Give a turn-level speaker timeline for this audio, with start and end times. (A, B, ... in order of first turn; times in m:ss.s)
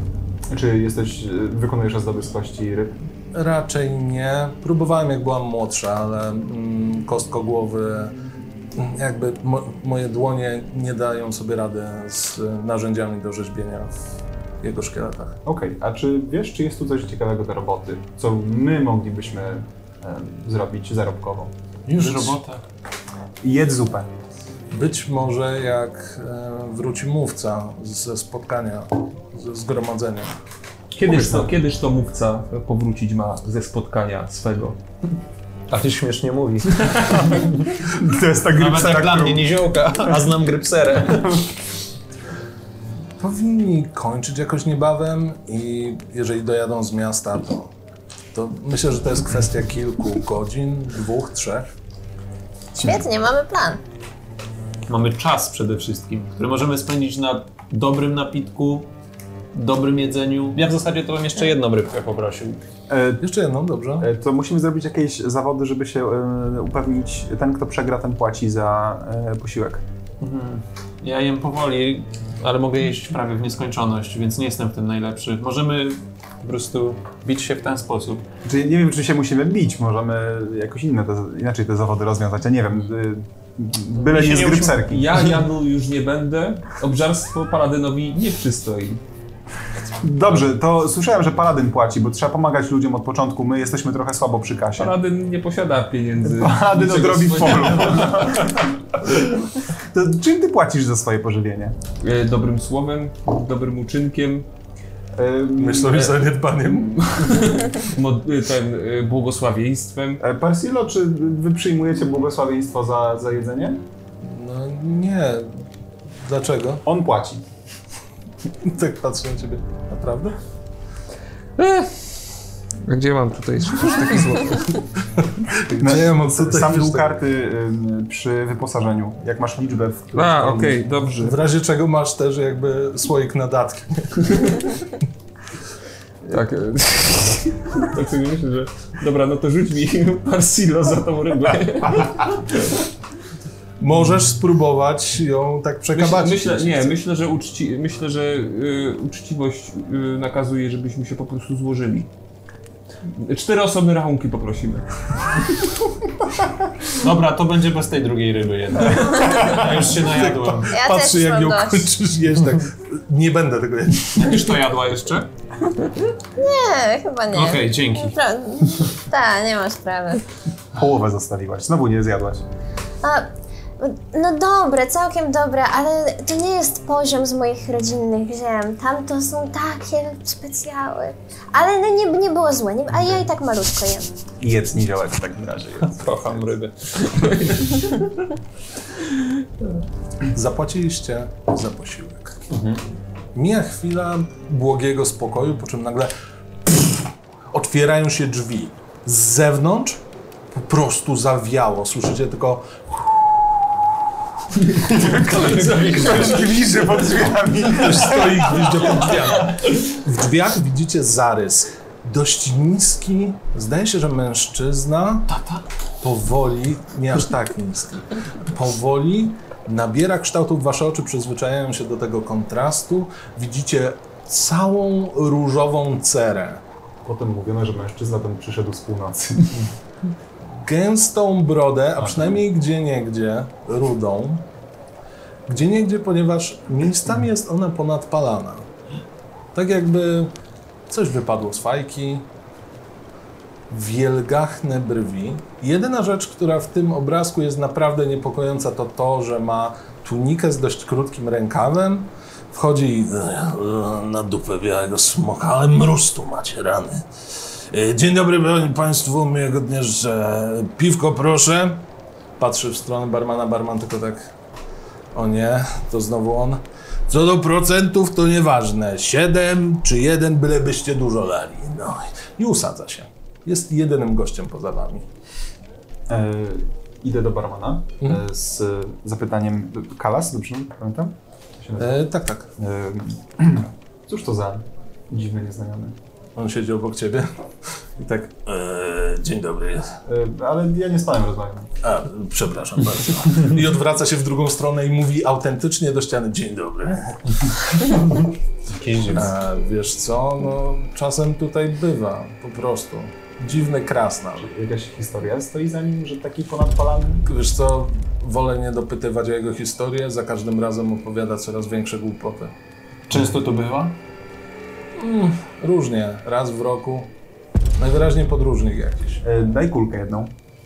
0:00.5-0:03.0 A
0:03.3-0:08.1 B
0:08.7-0:14.0 B
0:14.6-0:15.4 B
0:15.4-0:21.5 A
0:21.9-0:22.4 B
0:21.9-0:22.6 C
0:23.4-0:24.1 A
0:24.7-0:30.4 B
0:31.0-0:34.8 D
0:31.0-0:31.5 A
0:35.7-0:37.6 C
0:36.7-0:37.3 D
0:37.4-0:40.1 A
0:38.5-0:41.4 C
0:43.2-0:47.7 B
0:48.3-0:51.7 B
0:52.8-0:53.8 E
0:54.9-0:58.9 C
0:59.5-1:02.6 C
1:02.9-1:03.2 A
1:03.2-1:04.1 B
1:04.0-1:09.8 A
1:10.2-1:18.2 C
1:18.4-1:25.4 A
1:24.0-1:24.7 C
1:24.2-1:29.0 D
1:30.0-1:35.0 A
1:34.8-1:38.6 D
1:36.2-1:41.8 A
1:42.0-1:44.5 D
1:45.2-1:46.1 A
1:45.6-1:47.5 B
1:46.7-1:50.2 D
1:50.2-1:53.8 A
1:54.2-1:55.6 B
1:56.2-1:56.8 B
1:56.8-1:57.4 A
1:58.6-2:00.4 B
2:01.6-2:02.1 D
2:02.8-2:04.8 D
2:03.8-2:07.2 B
2:05.8-2:11.0 A
2:10.1-2:11.4 D
2:11.2-2:14.6 B
2:14.3-2:14.6 D
2:16.2-2:22.8 D
2:23.8-2:27.0 B
2:25.9-2:32.1 D
2:33.0-2:35.7 D
2:36.9-2:40.7 C
2:39.5-2:44.4 B
2:40.7-2:41.9 E
2:44.1-2:45.3 C
2:46.4-2:50.2 E
2:47.3-2:48.2 C
2:50.7-2:52.4 A
2:53.0-3:04.1 E
3:04.4-3:06.5 A
3:05.8-3:07.5 C
3:07.1-3:08.3 D
3:09.0-3:09.8 D
3:10.3-3:12.5 B
3:12.5-3:12.8 C
3:13.3-3:16.1 B
3:16.6-3:23.0 B
3:24.8-3:26.6 D
3:24.8-3:29.1 A
3:27.6-3:35.3 B
3:35.3-3:35.6 C
3:36.0-3:46.6 B
3:47.0-3:49.7 A
3:50.6-3:54.4 B
3:52.0-3:52.3 A
3:55.5-3:58.7 B
3:59.5-4:00.3 B
4:00.9-4:02.2 B
4:03.7-4:17.0 B
4:17.7-4:21.8 B
4:22.4-4:24.3 B
4:25.1-4:35.1 B
4:36.1-4:42.0 A
4:41.8-4:42.5 B
4:42.6-4:46.0 A
4:46.4-4:47.3 B
4:48.0-4:50.0 B
4:50.1-4:51.7 A
4:51.8-4:58.0 B
4:58.7-4:59.3 C
4:59.1-5:04.5 B
5:04.4-5:07.2 A
5:07.2-5:12.5 B
5:13.1-5:14.0 C
5:15.0-5:17.1 B
5:17.8-5:19.2 B
5:19.2-5:20.3 A